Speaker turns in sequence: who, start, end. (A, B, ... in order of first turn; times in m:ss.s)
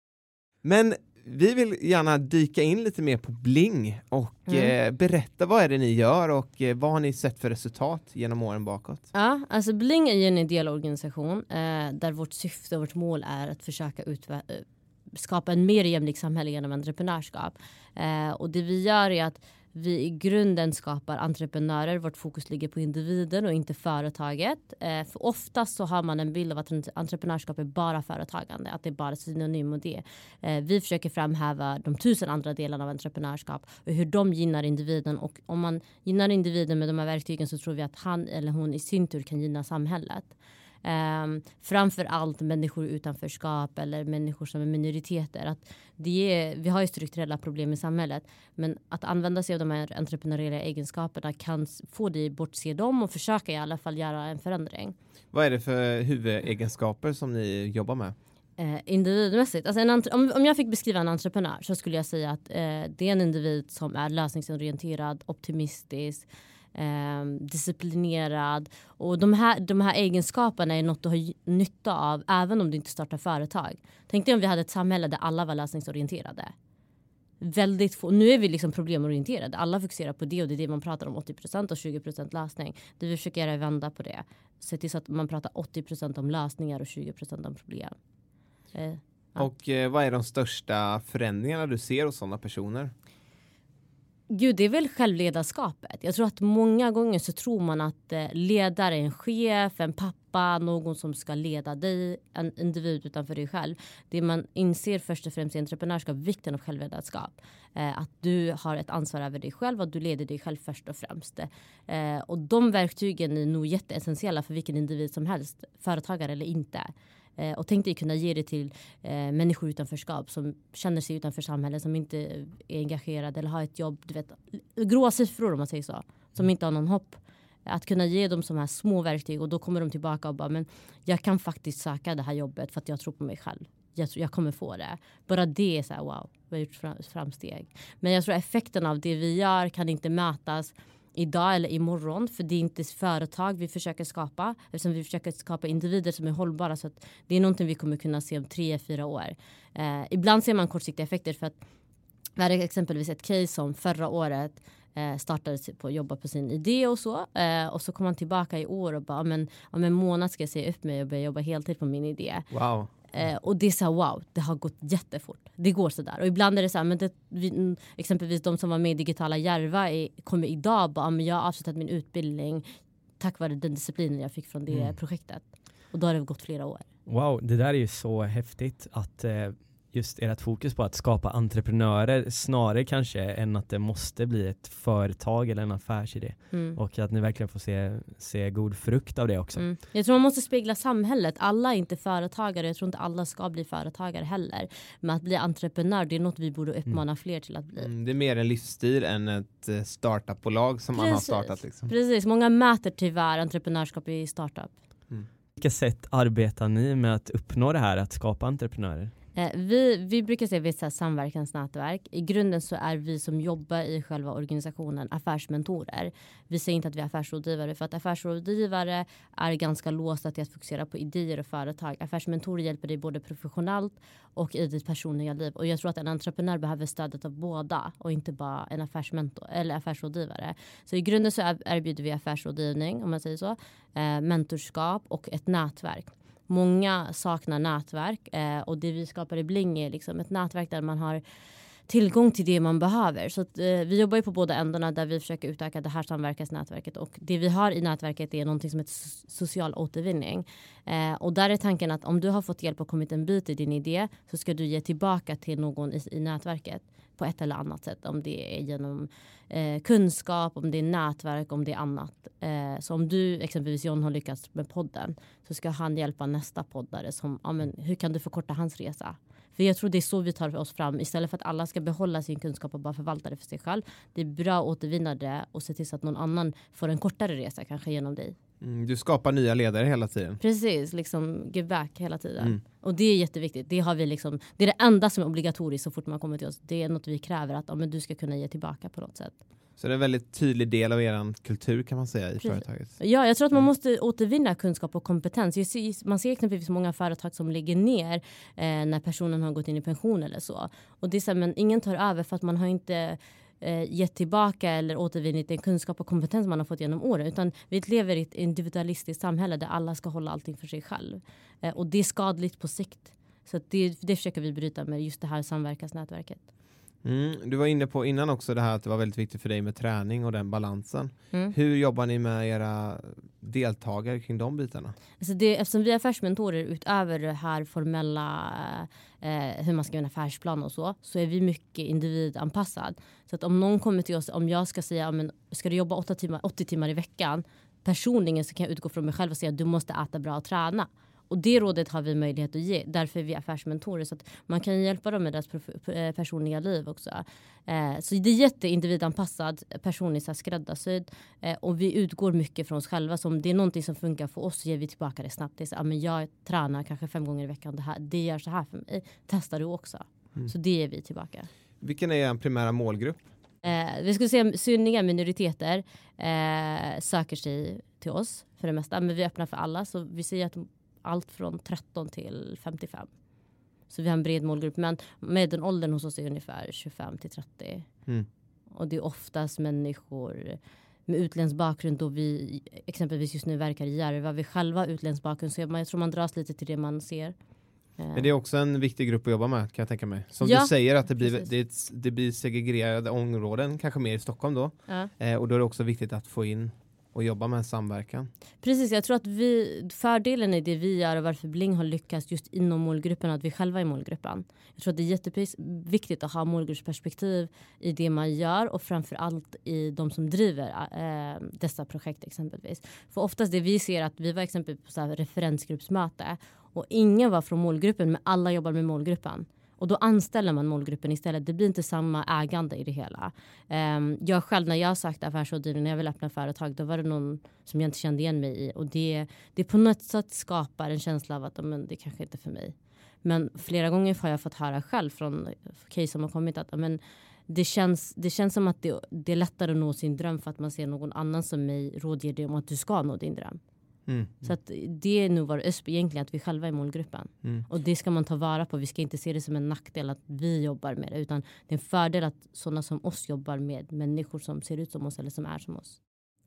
0:00.6-0:09.0 A
0:04.5-0:04.7 B
0:09.1-0:40.3 B
0:40.8-0:54.9 B
0:55.3-0:58.1 A
0:58.6-1:16.5 B
1:17.4-1:27.9 B
1:28.7-1:29.4 B
1:29.4-1:32.9 A
1:34.3-2:31.6 B
2:32.4-2:42.5 B
2:42.5-2:42.9 A
2:43.1-2:52.6 B
2:53.2-2:56.8 B
2:57.1-3:09.7 C
3:06.5-3:06.8 B
3:09.6-3:17.9 B
3:17.8-3:21.9 A
3:20.9-3:24.7 B
3:25.6-3:29.1 C
3:29.4-4:01.2 B
4:01.9-4:38.3 B
4:38.6-4:40.4 A
4:40.4-4:49.3 B
4:49.8-4:53.0 A
4:52.4-5:16.4 B
5:17.0-5:24.9 A
5:25.2-6:01.5 B
6:01.8-6:03.2 A
6:03.6-6:13.1 B
6:13.9-6:17.8 B
6:18.7-6:27.3 B
6:28.0-6:28.3 B
6:28.1-6:38.3 A
6:30.4-6:31.5 B
6:38.6-7:23.6 B
7:24.1-7:24.3 A
7:24.4-7:36.0 B